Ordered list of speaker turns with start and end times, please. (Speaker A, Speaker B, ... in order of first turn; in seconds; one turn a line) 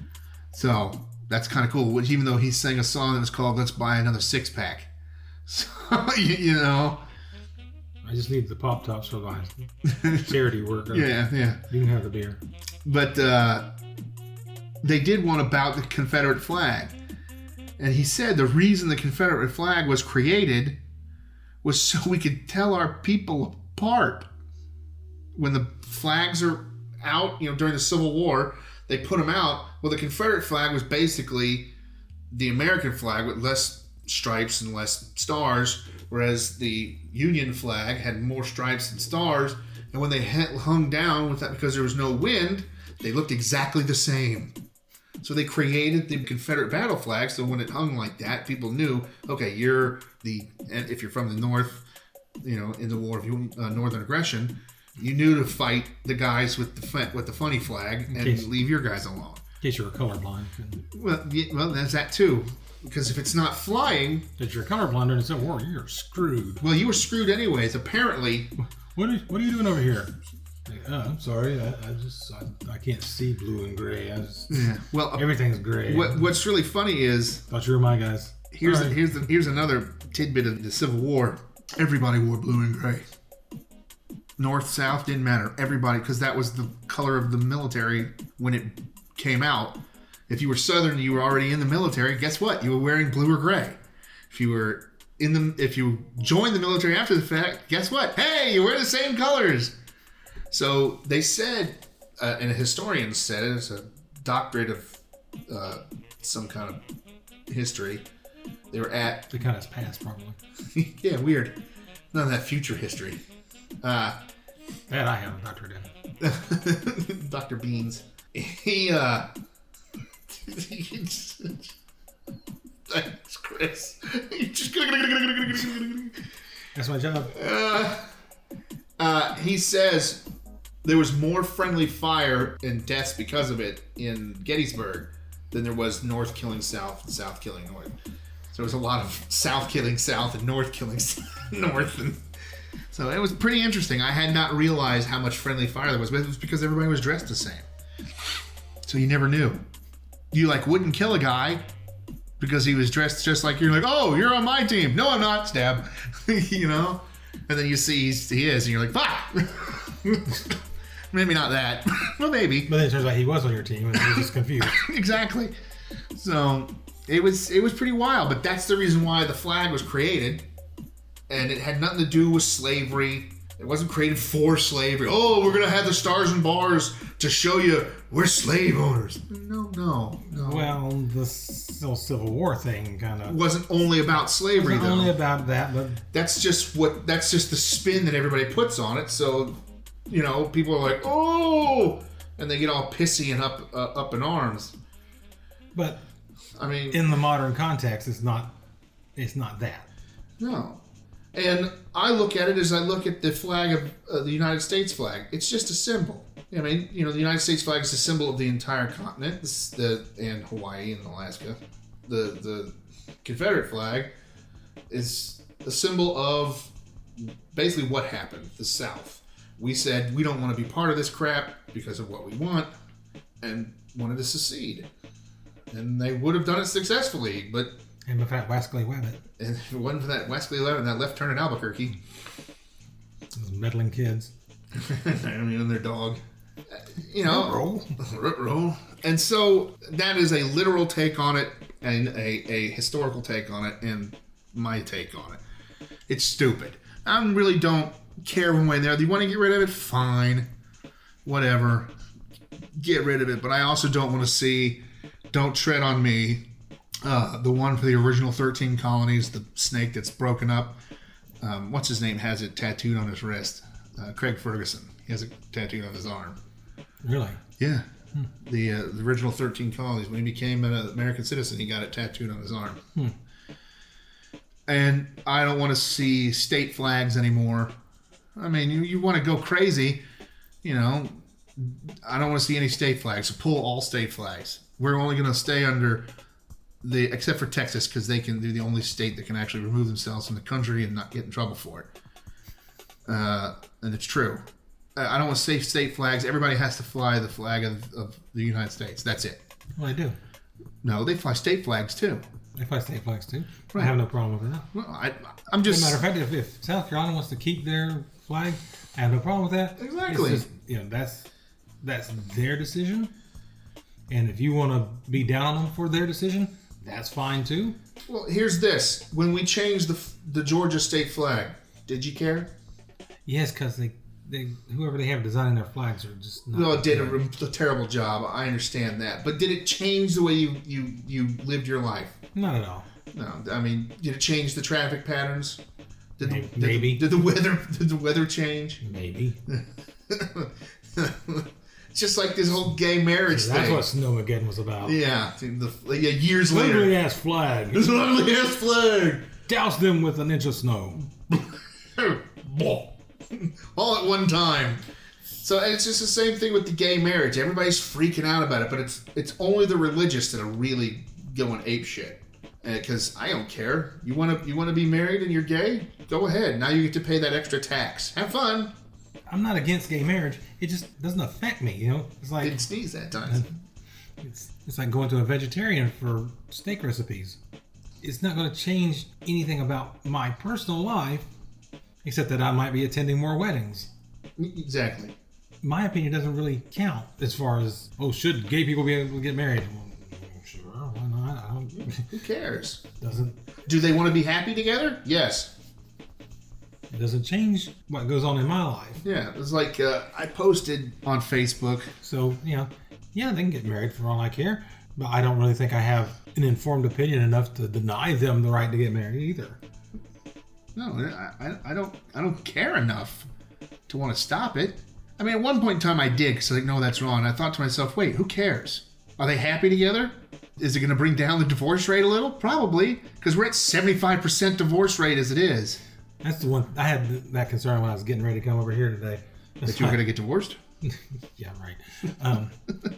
Speaker A: 0.5-4.9
Speaker A: 5.5-7.0
Speaker B: 8.0-9.5
Speaker A: 9.8-10.3
Speaker B: 10.2-12.4
Speaker A: 10.9-11.6
Speaker A: 12.8-13.7
Speaker A: 14.8-16.9
Speaker A: 17.8-20.8
Speaker A: 21.6-24.3
Speaker A: 25.4-31.7
Speaker A: 32.3-44.5
Speaker A: 45.2-51.8
Speaker A: 52.4-59.4
Speaker B: 58.1-58.5
Speaker B: 59.6-60.8
Speaker A: 60.9-64.3
Speaker B: 64.4-66.6
Speaker A: 66.6-68.5
Speaker B: 69.0-70.1
Speaker B: 70.7-76.3
Speaker A: 74.5-75.3
Speaker A: 75.8-77.4
Speaker B: 77.5-79.0
Speaker A: 78.5-83.1
Speaker A: 84.4-93.8
Speaker A: 94.3-99.7
Speaker A: 100.5-106.8
Speaker A: 107.5-108.0
Speaker A: 108.7-109.3
Speaker B: 109.3-110.4
Speaker A: 110.7-111.6
Speaker A: 112.1-113.2
Speaker A: 113.8-114.2
Speaker B: 114.9-115.9
Speaker A: 116.2-119.3
Speaker A: 120.3-121.8
Speaker A: 122.9-126.2
Speaker B: 126.7-127.3
Speaker A: 127.3-128.1
Speaker A: 129.0-130.2
Speaker A: 130.8-137.9
Speaker A: 138.5-142.2
Speaker A: 142.9-147.7
Speaker A: 148.8-149.6
Speaker A: 150.3-151.7
Speaker A: 152.4-160.6
Speaker A: 161.1-162.7
Speaker B: 162.7-164.8
Speaker A: 164.6-165.5
Speaker A: 166.1-170.4
Speaker A: 171.3-180.8
Speaker B: 180.3-183.4
Speaker A: 183.3-185.1
Speaker B: 184.6-186.0
Speaker A: 186.1-194.8
Speaker B: 195.8-196.0
Speaker A: 196.6-197.0
Speaker B: 196.9-198.6
Speaker B: 199.2-199.9
Speaker A: 200.4-200.8
Speaker A: 201.3-214.1
Speaker A: 214.9-222.7
Speaker A: 223.4-224.9
Speaker A: 225.7-227.8
Speaker B: 228.1-229.2
Speaker A: 229.4-232.0
Speaker B: 233.3-234.3
Speaker A: 234.7-236.2
Speaker A: 236.8-245.4
Speaker B: 237.2-237.9
Speaker A: 246.1-250.5
Speaker A: 251.2-251.9
Speaker A: 252.8-256.4
Speaker A: 257.0-260.8
Speaker A: 261.4-266.4
Speaker B: 267.0-267.4
Speaker A: 267.6-272.8
Speaker A: 274.7-277.8
Speaker A: 278.4-280.0
Speaker A: 280.6-286.1
Speaker A: 286.8-291.9
Speaker A: 293.1-294.4
Speaker A: 295.0-299.4
Speaker B: 299.8-300.2
Speaker A: 300.8-302.2
Speaker B: 302.6-304.7
Speaker A: 304.7-306.0
Speaker B: 305.6-311.3
Speaker A: 309.8-310.5
Speaker B: 311.8-313.1
Speaker B: 314.1-317.8
Speaker A: 318.1-322.5
Speaker B: 323.2-327.2
Speaker A: 326.5-332.2
Speaker B: 332.4-332.9
Speaker A: 333.1-335.6
Speaker A: 336.2-338.8
Speaker B: 336.2-337.0
Speaker B: 338.8-339.4
Speaker A: 339.5-343.9
Speaker B: 343.3-345.0
Speaker A: 344.8-347.0
Speaker B: 346.5-347.8
Speaker A: 347.7-349.3
Speaker B: 349.5-351.1
Speaker A: 352.0-354.8
Speaker A: 355.4-368.7
Speaker B: 369.3-372.6
Speaker A: 372.4-373.5
Speaker B: 374.2-377.4
Speaker B: 378.0-381.3
Speaker B: 382.0-383.9
Speaker A: 384.4-385.1
Speaker B: 385.6-392.1
Speaker A: 391.8-392.8
Speaker B: 393.0-393.4
Speaker A: 393.7-395.5
Speaker B: 396.9-399.0
Speaker A: 399.0-401.9
Speaker B: 402.0-409.6
Speaker A: 410.8-413.3
Speaker A: 413.9-425.8
Speaker B: 426.2-430.0
Speaker A: 429.6-430.6
Speaker B: 430.8-432.6